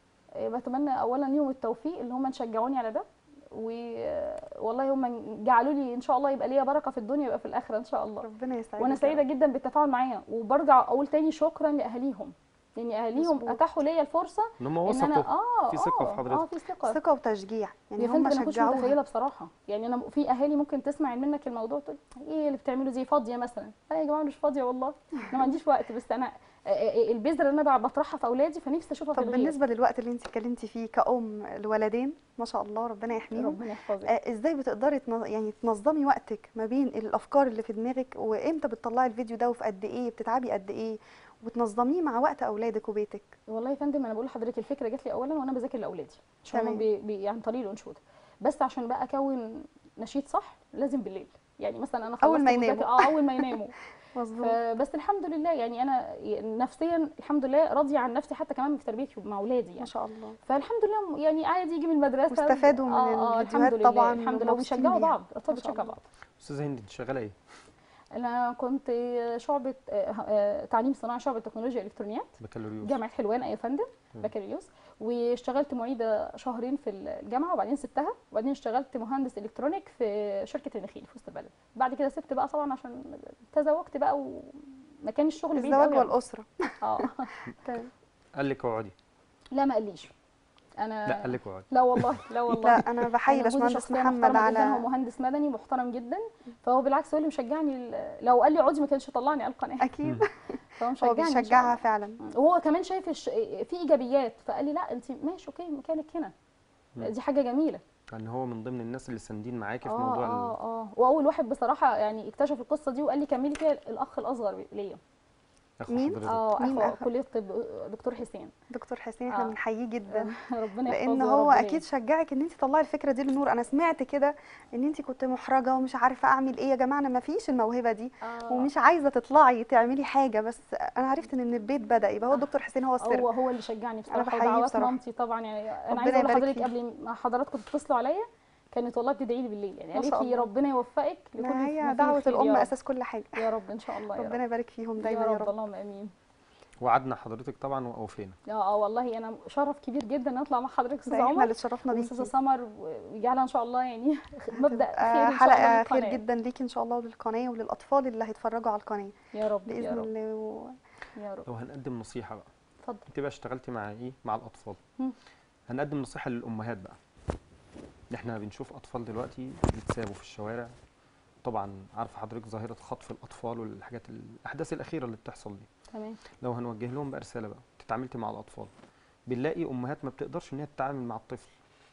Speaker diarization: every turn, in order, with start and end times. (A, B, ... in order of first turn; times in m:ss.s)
0:00.4-0:08.3 A
0:08.2-0:09.2 B
0:08.8-0:17.0 A
0:13.2-0:13.6 B
0:14.6-0:16.5 C
0:16.8-0:19.0 B
0:18.0-0:29.6 A
0:29.2-0:43.3 B
0:33.3-0:34.1 A
0:43.5-0:53.8 A
0:46.5-0:46.9 B
0:52.2-0:53.5 B
0:54.2-0:54.6 B
0:54.4-0:59.9 A
0:59.8-1:00.4 B
1:00.5-1:06.0 A
1:02.3-1:06.0 B
1:06.4-1:07.4 C
1:08.2-1:26.1 A
1:12.4-1:13.0 C
1:25.6-1:26.5 B
1:26.8-1:27.3 A
1:27.6-1:27.9 B
1:28.4-1:28.9 C
1:29.5-1:30.1 A
1:30.8-1:39.9 A
1:31.1-1:32.7 C
1:32.6-1:34.8 B
1:39.8-1:40.3 B
1:40.8-1:46.3 A
1:41.0-1:42.2 B
1:47.0-1:47.8 A
1:48.1-1:50.5 C
1:49.9-1:55.0 A
1:55.8-1:56.4 C
1:55.9-1:57.1 B
1:56.3-1:58.5 A
1:58.7-2:00.3 B
1:59.3-1:59.6 A
2:00.1-2:01.8 A
2:00.9-2:13.3 B
2:08.2-2:08.7 A
2:13.0-2:22.7 A
2:14.1-2:15.0 B
2:15.9-2:16.7 B
2:19.9-2:20.5 B
2:21.4-2:23.4 B
2:23.4-2:24.4 A
2:24.2-2:25.5 B
2:25.0-2:26.1 A
2:26.8-2:28.4 C
2:28.5-2:36.2 A
2:31.1-2:32.3 B
2:34.6-2:39.1 B
2:39.3-2:40.1 A
2:39.7-2:40.7 B
2:41.2-2:41.5 A
2:41.5-2:42.5 C
2:43.1-2:44.8 C
2:45.7-2:47.0 C
2:48.1-2:50.7 C
2:51.4-2:55.7 C
2:55.9-2:56.2 A
2:56.4-2:58.7 C
2:59.3-3:01.5 C